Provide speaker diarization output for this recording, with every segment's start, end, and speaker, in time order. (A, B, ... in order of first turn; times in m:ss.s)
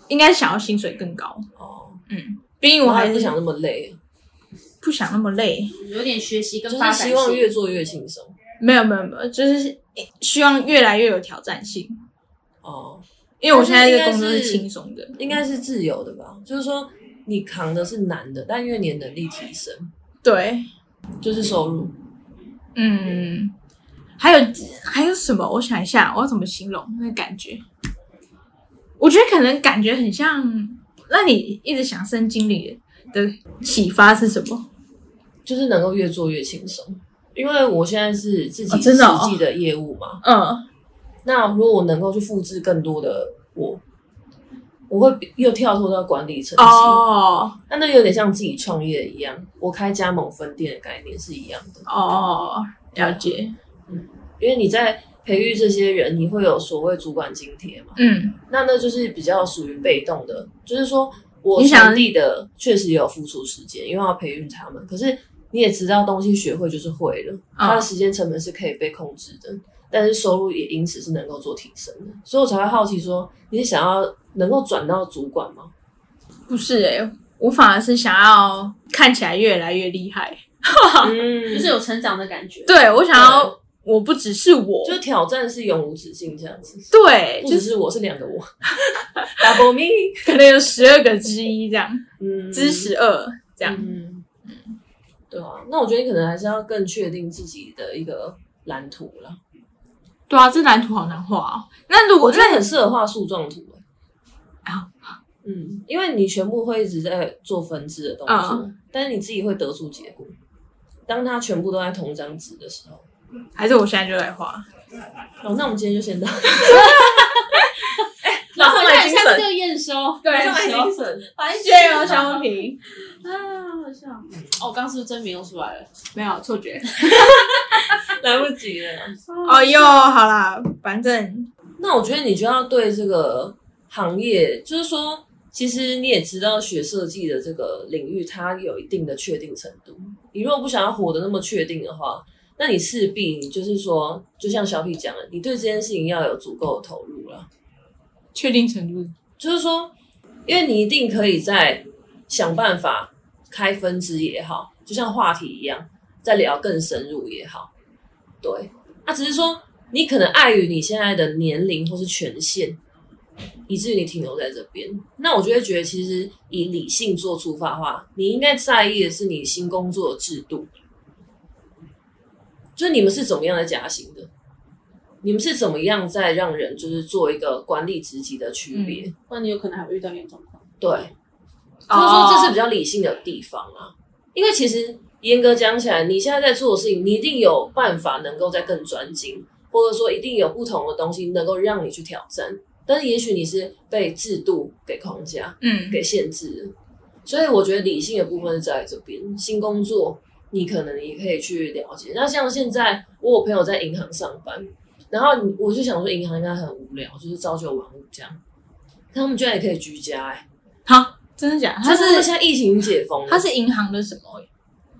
0:00.1-0:01.5 A
0:01.6-0:02.0 B
0:02.1-0:03.4 A
0:02.8-0:04.0 B
0:04.8-0:05.8 A
0:05.7-0:07.5 C
0:06.7-0:08.4 B
0:08.6-0:12.0 A
0:12.6-0:14.6 B
0:13.4-0:15.2 A
0:15.2-0:19.9 B
0:20.2-0:20.7 A
0:21.2-0:21.9 B
0:22.8-0:23.5 A
0:24.2-0:27.6 A
0:29.0-0:34.6 A
0:35.4-0:40.2 B
0:38.7-0:39.4 A
0:40.2-0:40.6 A
0:41.2-0:43.8 B
0:44.9-0:47.0 B
0:46.6-0:47.6 A
0:47.7-0:51.8 B
0:51.9-0:53.5 A
0:53.0-0:53.3 B
0:53.9-0:58.0 B
0:58.0-0:58.4 A
0:58.5-1:15.7 B
1:01.6-1:02.1 A
1:07.6-1:07.9 A
1:16.5-1:21.1 A
1:21.0-1:21.8 B
1:21.5-1:22.8 C
1:22.7-1:25.0 A
1:23.1-1:23.5 B
1:24.8-1:30.2 B
1:26.9-1:27.7 A
1:29.2-1:29.5 A
1:30.2-1:33.9 A
1:32.2-1:32.9 B
1:33.6-1:34.2 B
1:35.3-1:39.4 B
1:40.3-1:42.6 A
1:42.2-1:43.8 B
1:44.7-1:45.2 A
1:45.4-1:50.3 B
1:48.3-1:48.6 A
1:51.1-1:53.0 B
1:53.6-1:54.6 A
1:55.4-1:57.6 B
1:56.7-1:57.5 C
1:58.2-1:59.5 B
1:58.6-2:05.9 C
2:00.2-2:00.7 A
2:00.3-2:01.3 B
2:01.5-2:02.8 A
2:06.2-2:07.4 A
2:07.0-2:07.3 C
2:07.1-2:09.2 B
2:09.2-2:10.0 C
2:09.4-2:11.5 A
2:11.8-2:27.5 B
2:28.3-2:29.1 A
2:29.4-2:29.9 B
2:30.5-2:37.7 B
2:38.4-2:42.8 B
2:43.7-2:50.7 B
2:52.8-2:54.3 B
2:55.2-2:59.1 B
2:58.7-2:59.0 A
2:59.3-3:00.6 C
3:00.8-3:01.1 B
3:01.9-3:02.6 A
3:01.9-3:16.7 B
3:15.6-3:16.0 A
3:17.2-3:28.4 B
3:29.1-3:30.4 B
3:30.9-3:32.3 A
3:31.8-3:33.5 B
3:33.3-3:34.5 A